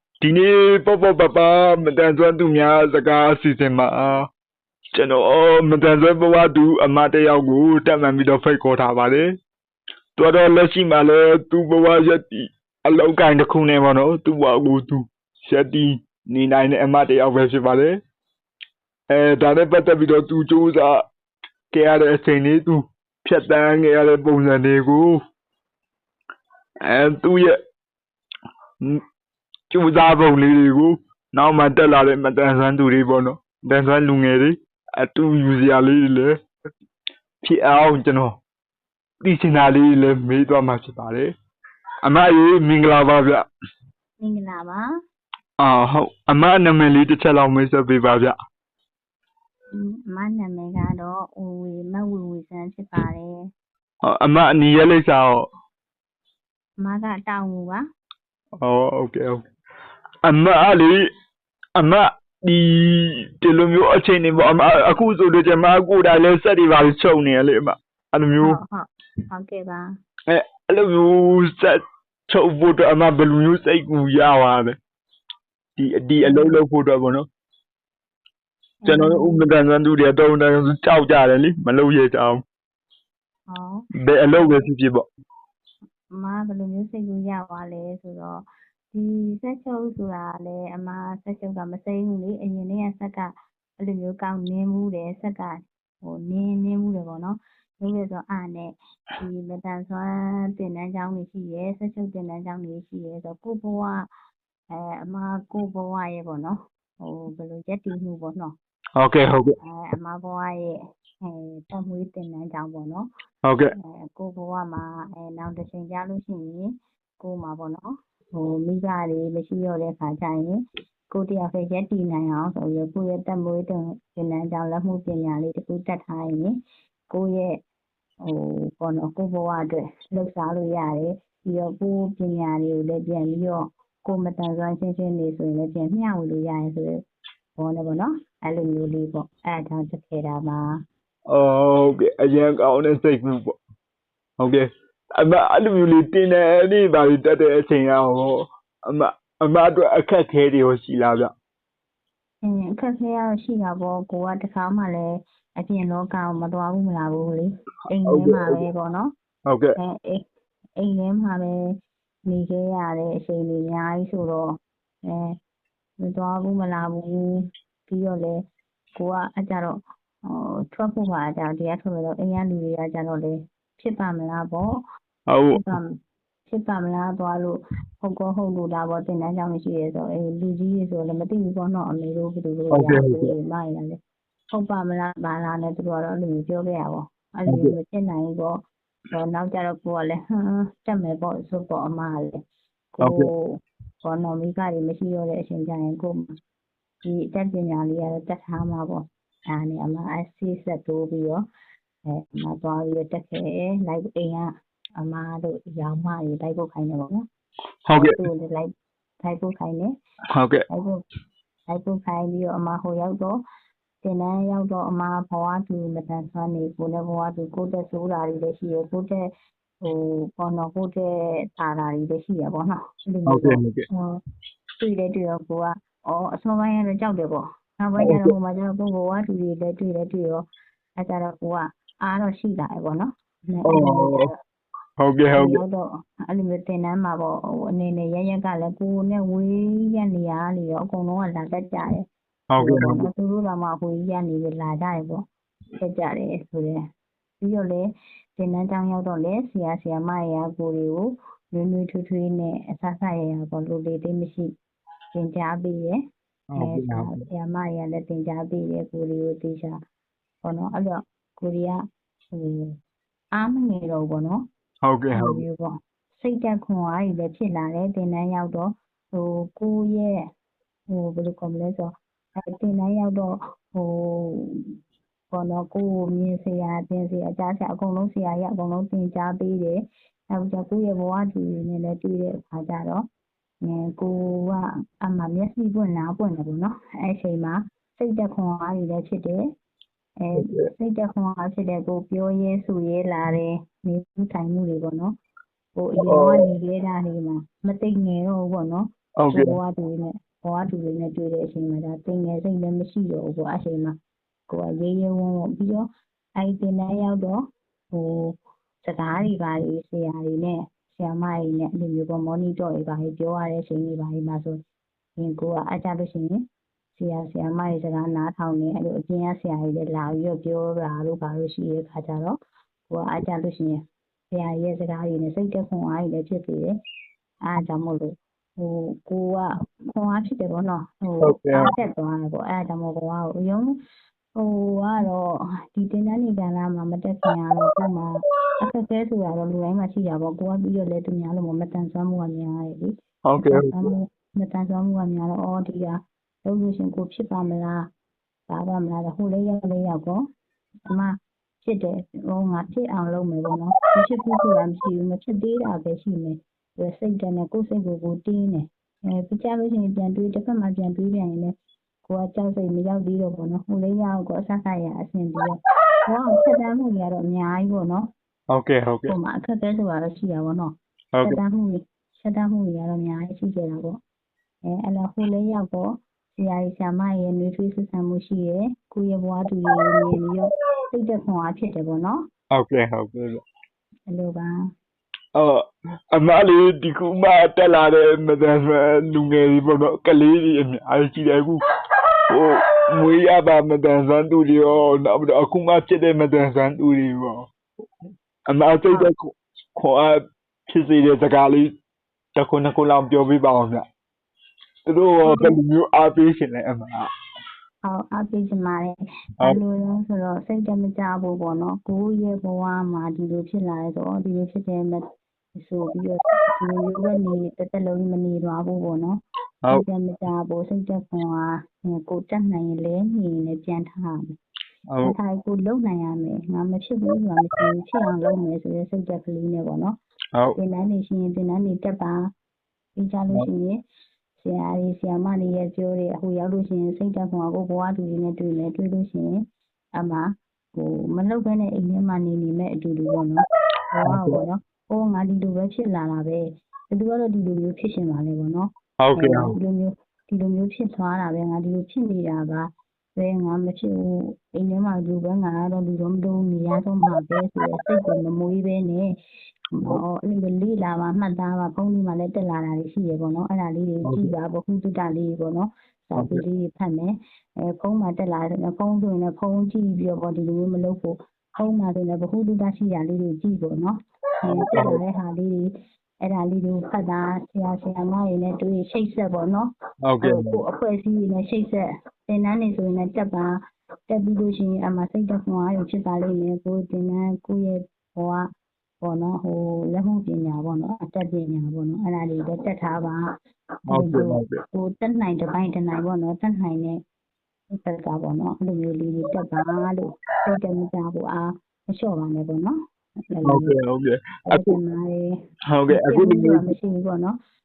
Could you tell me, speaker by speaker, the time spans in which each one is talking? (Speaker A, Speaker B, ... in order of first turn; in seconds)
Speaker A: 0.2-4.3, 4.9-9.4, 10.2-18.0, 19.1-21.1, 21.7-25.2, 26.9-27.6, 29.7-36.4, 37.4-38.4, 39.2-41.3, 42.0-43.5, 45.6-48.4, 54.0-55.5, 58.6-59.5, 60.2-61.1, 61.8-68.6, 70.3-74.8, 75.8-77.3, 78.9-82.4, 83.9-85.0, 109.0-109.6, 113.4-113.7, 141.3-143.6, 144.4-151.3, 158.0-158.7, 159.5-159.8, 175.3-175.6, 182.7-183.3, 187.5-187.8, 193.0-193.3, 207.9-208.2, 210.3-210.7, 223.3-223.9, 228.0-228.4, 233.6-234.3, 235.0-235.6, 242.5-243.1, 256.5-257.2, 264.8-265.4, 290.3-290.7, 296.0-296.5, 299.2-299.6, 331.2-331.8, 343.2-343.9, 368.5-369.2, 371.1-371.4, 379.7-380.2, 382.5-383.4, 385.4-391.6, 392.3-397.5, 398.5-401.7, 402.4-403.9, 404.9-407.1, 424.9-425.2, 444.0-444.4, 449.0-449.6, 464.0-464.4, 466.2-466.4, 474.5-475.0, 480.1-480.6, 493.9-494.6, 503.4-504.8, 505.7-506.7
Speaker B: 44.2-44.8, 49.7-53.3, 56.8-57.8, 68.4-69.8, 76.2-76.6, 78.8-79.5, 83.5-84.7, 86.2-104.1, 104.7-108.5, 109.6-113.1, 113.8-126.5, 127.1-127.5, 128.2-137.0, 137.6-140.8, 152.4-159.1, 159.8-160.2, 160.8-161.6, 162.3-164.4, 165.1-165.3, 166.0-168.4, 168.9-169.8, 170.3-174.7, 175.5-175.9, 176.5-184.0, 184.5-188.5, 189.1-192.4, 193.0-193.4, 194.0-196.3, 197.1-201.4, 202.1-204.5, 205.0-207.2, 207.9-208.7, 209.2-209.9, 211.7-213.3, 214.0-219.3, 219.8-224.2, 224.8-230.5, 231.0-234.3, 235.4-242.1, 242.6-245.2, 245.8-246.8, 247.4-247.8, 248.4-254.5, 255.1-256.0, 256.6-259.8, 260.4-261.8, 262.3-262.8, 263.4-264.4, 265.1-270.1, 270.9-274.8, 275.3-279.8, 280.3-283.0, 283.6-289.4, 290.2-295.1, 295.8-304.0, 304.5-305.9, 306.4-307.4, 307.9-314.6, 315.2-316.4, 316.9-322.4, 322.9-323.8, 324.3-326.7, 327.5-333.8, 334.4-347.8, 348.5-350.2, 350.9-361.5, 362.1-368.1, 369.1-374.0, 374.7-382.2, 384.1-384.5, 405.2-405.6, 407.8-408.9, 409.5-415.0, 415.6-419.2, 419.8-424.4, 425.0-430.0, 430.6-432.2, 433.0-433.7, 434.4-439.3, 440.0-440.2, 440.7-459.1, 459.8-475.7, 476.2-479.7, 480.2-483.5, 484.1-488.5, 489.0-493.2, 494.0-496.9, 497.7-502.8, 503.3-503.8, 504.5-505.3, 505.9-507.4